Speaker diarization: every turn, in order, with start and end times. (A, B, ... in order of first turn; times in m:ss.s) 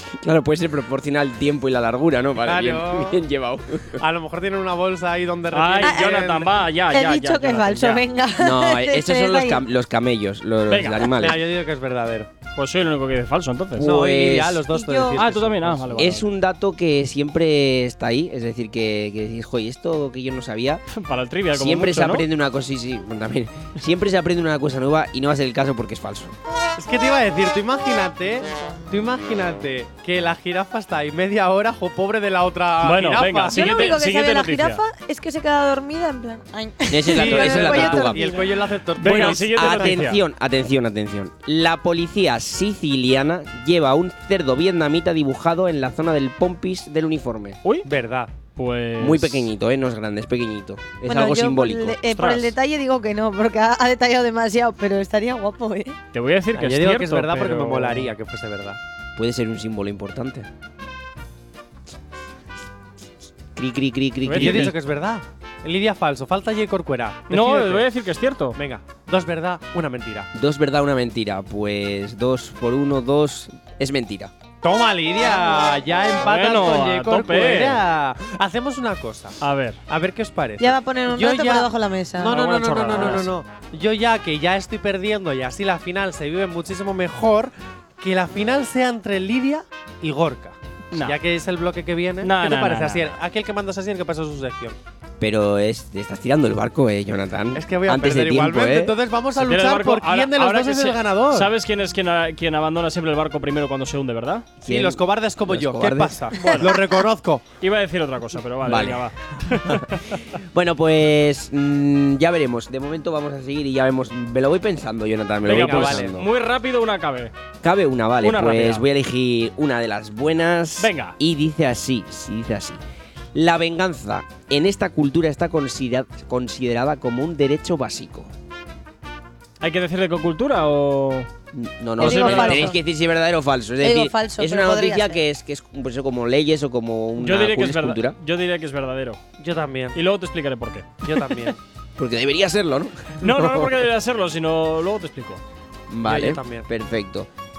0:00.2-0:04.0 A
0:02.4-0:03.2 B
0:04.0-0:06.6 B
0:05.5-0:08.0 C
0:05.8-0:06.2 D
0:06.9-0:09.6 D
0:08.4-0:11.4 A
0:10.7-0:11.1 C
0:11.1-0:12.3 B
0:12.6-0:13.9 C
0:13.8-0:14.7 A
0:13.8-0:16.2 B
0:14.7-0:15.2 D
0:15.1-0:16.3 C
0:16.0-0:20.8 A
0:20.9-0:22.3 C
0:21.5-0:26.4 A
0:26.8-0:33.8 B
0:32.8-0:34.8 C
0:33.5-0:38.5 D
0:36.9-0:38.3 A
0:37.1-0:39.7 B
0:39.0-0:40.2 C
0:39.0-0:47.6 A
0:47.8-0:48.3 B
0:48.6-0:49.5 C
0:49.0-0:52.0 A
0:51.0-0:56.0 D
0:52.1-0:52.5 C
0:56.1-0:58.1 C
0:56.5-0:58.8 B
0:59.2-1:00.5 A
1:03.6-1:04.7 A
1:04.2-1:04.8 C
1:04.4-1:07.9 B
1:07.3-1:08.6 C
1:08.6-1:10.3 B
1:10.3-1:14.3 A
1:14.6-1:34.8 B
1:16.2-1:17.8 C
1:19.4-1:19.8 C
1:20.6-1:22.4 D
1:22.3-1:23.3 C
1:30.9-1:31.2 C
1:32.2-1:33.1 C
1:35.2-1:39.0 A
1:37.5-1:41.5 B
1:39.4-1:44.5 C
1:44.6-1:46.2 A
1:44.6-1:47.4 B
1:46.4-1:46.7 C
1:47.6-1:50.0 C
1:48.6-1:49.1 A
1:50.4-1:56.3 A
1:55.4-1:57.3 C
1:55.5-1:56.2 B
1:57.6-2:02.8 A
1:58.2-1:58.8 C
2:00.8-2:01.2 C
2:03.3-2:08.3 A
2:09.6-2:11.3 C
2:11.5-2:18.2 A
2:12.0-2:12.8 D
2:12.0-2:12.8 C
2:13.8-2:15.2 D
2:17.2-2:19.2 C
2:19.4-2:20.0 B
2:19.9-2:21.2 C
2:21.0-2:21.6 B
2:22.0-2:23.8 A
2:23.2-2:25.4 C
2:25.9-2:27.3 A
2:26.0-2:26.7 B